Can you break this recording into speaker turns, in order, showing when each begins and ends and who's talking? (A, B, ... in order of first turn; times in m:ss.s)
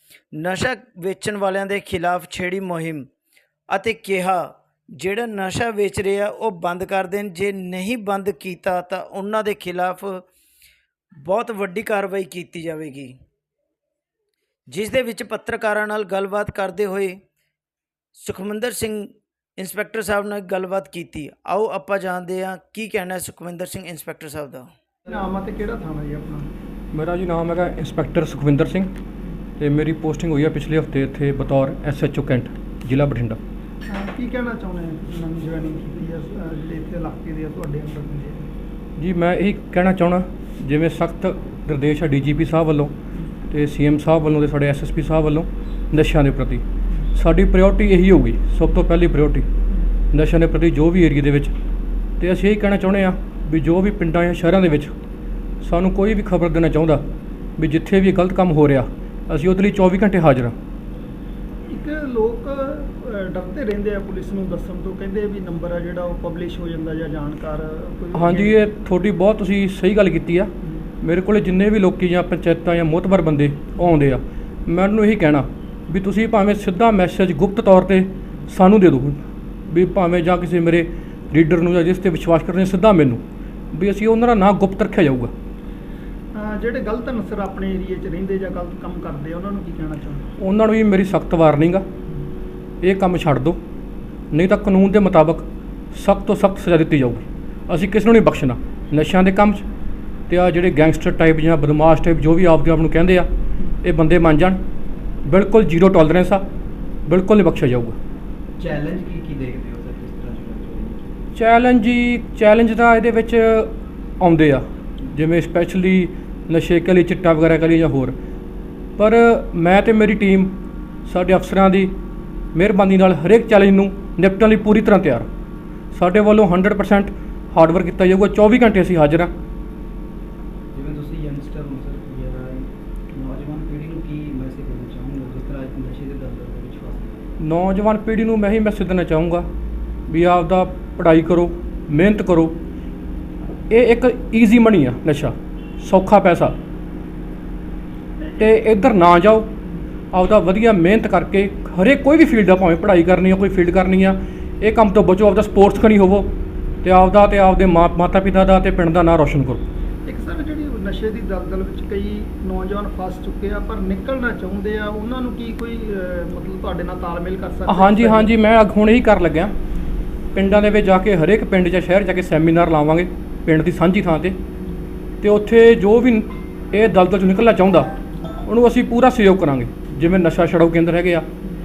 0:00.3-0:03.1 A
0:03.7-0:10.2 A
0:11.2-0:13.2 A
0:14.7-0:17.2 A
0:18.2-0:24.7 A
0:25.1-0:26.5 B
0:26.9-0:28.9 C
0:29.6-0:33.4 C
0:33.9-0:38.5 B
0:39.0-0:42.9 C
0:43.5-0:46.6 C
0:47.2-0:49.5 C
0:50.1-0:51.5 C
0:52.2-0:54.9 C
0:55.6-0:57.0 C
0:57.6-1:00.5 C
1:01.7-1:08.6 B
1:08.1-1:10.5 C
1:11.0-1:25.3 C
1:26.3-1:30.3 B
1:30.4-1:31.8 C
1:32.8-1:33.6 C
1:34.3-1:39.6 C
1:40.3-1:43.3 C
1:43.8-1:44.6 C
1:45.2-1:46.4 C
1:47.1-1:48.0 C
1:48.6-1:51.3 D
1:51.4-1:58.2 C
1:59.0-2:00.6 C
2:01.1-2:01.9 C
2:02.5-2:05.3 C
2:05.9-2:09.3 C
2:10.7-2:17.2 D
2:17.4-2:19.5 C
2:20.1-2:22.6 C
2:23.7-2:26.6 C
2:28.4-2:29.5 C
2:30.1-2:36.3 C
2:36.8-2:39.6 C
2:40.1-2:48.3 B
2:47.7-2:49.5 C
2:50.3-2:54.4 C
2:55.2-2:57.9 C
2:58.5-3:01.3 C